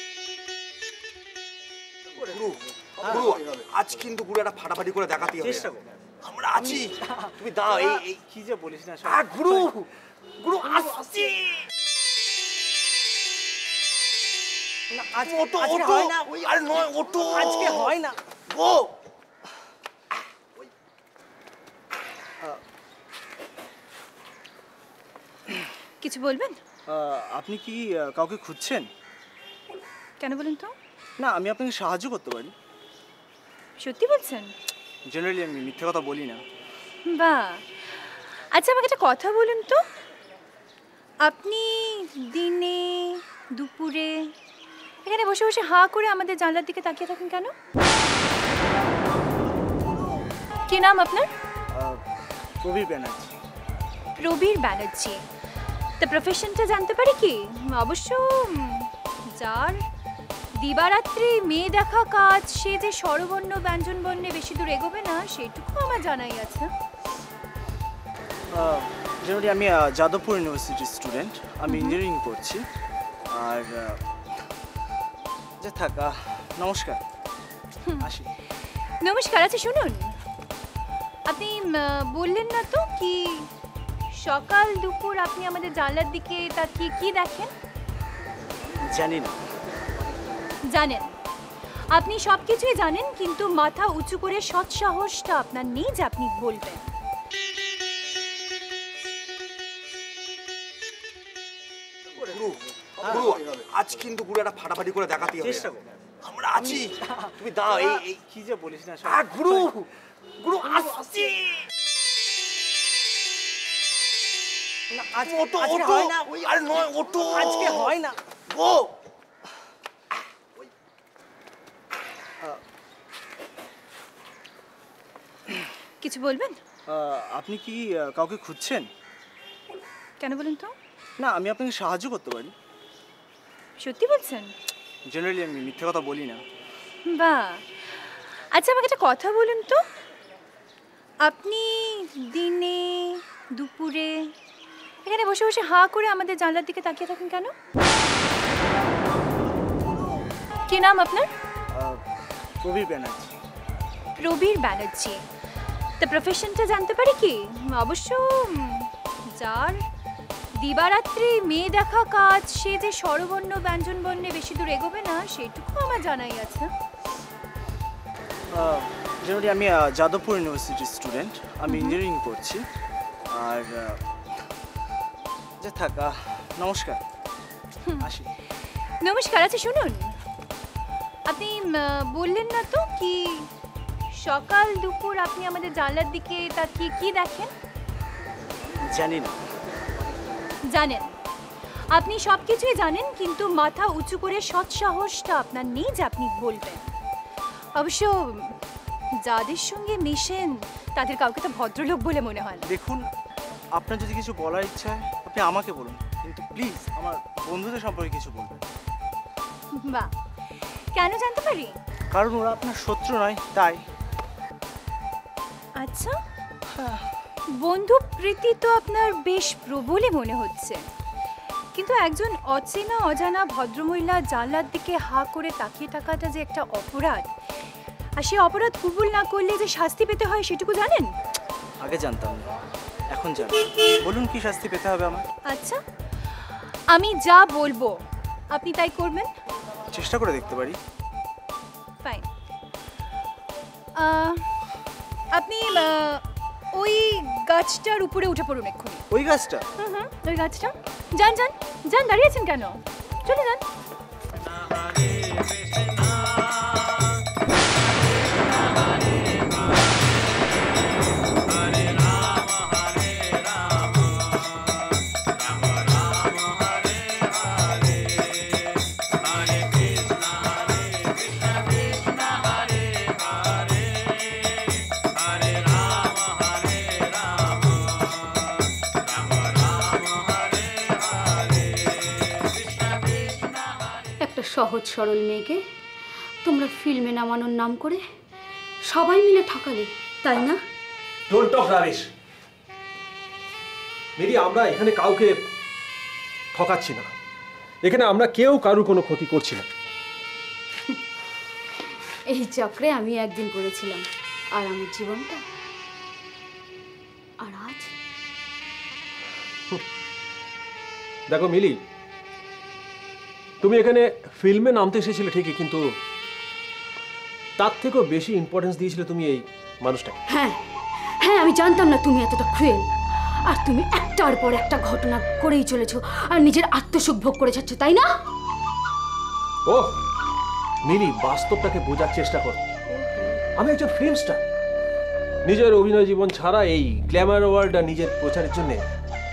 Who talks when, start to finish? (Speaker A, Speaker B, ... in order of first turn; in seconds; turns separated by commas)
Speaker A: 2.3-5.6, Speaker B: 3.0-3.4, Speaker B: 5.3-5.8, Speaker A: 6.2-6.9, Speaker B: 6.5-9.8, Speaker A: 7.4-8.2, Speaker A: 9.1-9.9, Speaker A: 10.4-11.7, Speaker B: 10.8-11.2, Speaker B: 14.9-18.7, Speaker A: 15.4-17.5, Speaker C: 26.0-26.6, Speaker B: 26.9-28.9, Speaker C: 30.2-30.7, Speaker B: 31.2-32.5, Speaker C: 33.8-34.5, Speaker B: 35.1-36.4, Speaker C: 37.1-39.8, Speaker C: 41.2-44.3, Speaker C: 45.0-47.5, Speaker C: 50.7-51.3, Speaker B: 51.7-52.0, Speaker B: 52.6-53.3, Speaker C: 54.2-55.2, Speaker C: 56.0-59.8, Speaker C: 60.6-66.7, Speaker B: 68.5-72.7, Speaker C: 71.7-72.0, Speaker B: 73.3-74.0, Speaker B: 75.6-77.0, Speaker B: 78.0-78.3, Speaker C: 79.0-80.2, Speaker C: 81.3-83.5, Speaker C: 84.1-87.5, Speaker B: 88.9-89.4, Speaker C: 90.7-91.1, Speaker C: 91.9-96.9, Speaker A: 102.3-105.6, Speaker B: 103.0-103.5, Speaker B: 105.3-105.9, Speaker A: 106.2-108.2, Speaker B: 106.5-109.9, Speaker A: 109.2-109.9, Speaker A: 110.4-111.7, Speaker B: 110.7-111.2, Speaker B: 114.9-118.8, Speaker A: 115.5-117.2, Speaker C: 126.0-126.6, Speaker B: 126.9-128.9, Speaker C: 130.2-130.7, Speaker B: 131.2-132.5, Speaker C: 133.8-134.5, Speaker B: 135.1-136.4, Speaker C: 137.1-139.8, Speaker C: 141.2-144.3, Speaker C: 145.1-147.5, Speaker C: 150.7-151.3, Speaker B: 151.7-152.0, Speaker B: 152.6-153.3, Speaker C: 154.2-155.2, Speaker C: 156.0-159.8, Speaker C: 160.6-166.7, Speaker B: 168.5-172.7, Speaker C: 171.7-172.0, Speaker B: 173.3-174.0, Speaker B: 175.6-177.0, Speaker B: 178.0-178.3, Speaker C: 179.0-180.2, Speaker C: 181.3-183.5, Speaker C: 184.1-187.5, Speaker B: 188.9-189.4, Speaker C: 190.7-191.2, Speaker C: 191.9-196.9, Speaker C: 197.8-198.6, Speaker C: 199.2-202.7, Speaker B: 202.7-203.1, Speaker B: 203.8-208.6, Speaker C: 209.8-211.8, Speaker B: 212.1-213.8, Speaker C: 215.8-216.2, Speaker B: 216.7-217.1, Speaker C: 217.6-220.8, Speaker C: 221.8-227.3, Speaker C: 228.2-231.1, Speaker B: 231.8-232.5, Speaker B: 233.1-235.2, Speaker C: 235.5-235.8, Speaker C: 236.9-237.9, Speaker C: 238.5-239.3, Speaker B: 239.9-240.8, Speaker C: 244.0-244.5, Speaker C: 245.3-246.2, Speaker C: 246.7-249.0, Speaker B: 249.1-249.7, Speaker C: 249.8-253.6, Speaker D: 284.2-285.6, Speaker D: 286.4-288.0, Speaker D: 288.8-290.6, Speaker E: 291.3-292.1, Speaker E: 294.2-295.3, Speaker E: 296.5-297.1, Speaker E: 297.8-299.7, Speaker D: 302.3-305.4, Speaker D: 307.4-307.9, Speaker E: 311.3-311.8, Speaker E: 313.6-315.8, Speaker E: 317.6-320.2, Speaker D: 320.3-320.6, Speaker D: 321.2-322.9, Speaker D: 323.5-328.1, Speaker E: 329.7-329.9, Speaker E: 330.8-332.6, Speaker D: 332.9-333.4, Speaker E: 333.6-334.4, Speaker E: 335.4-338.8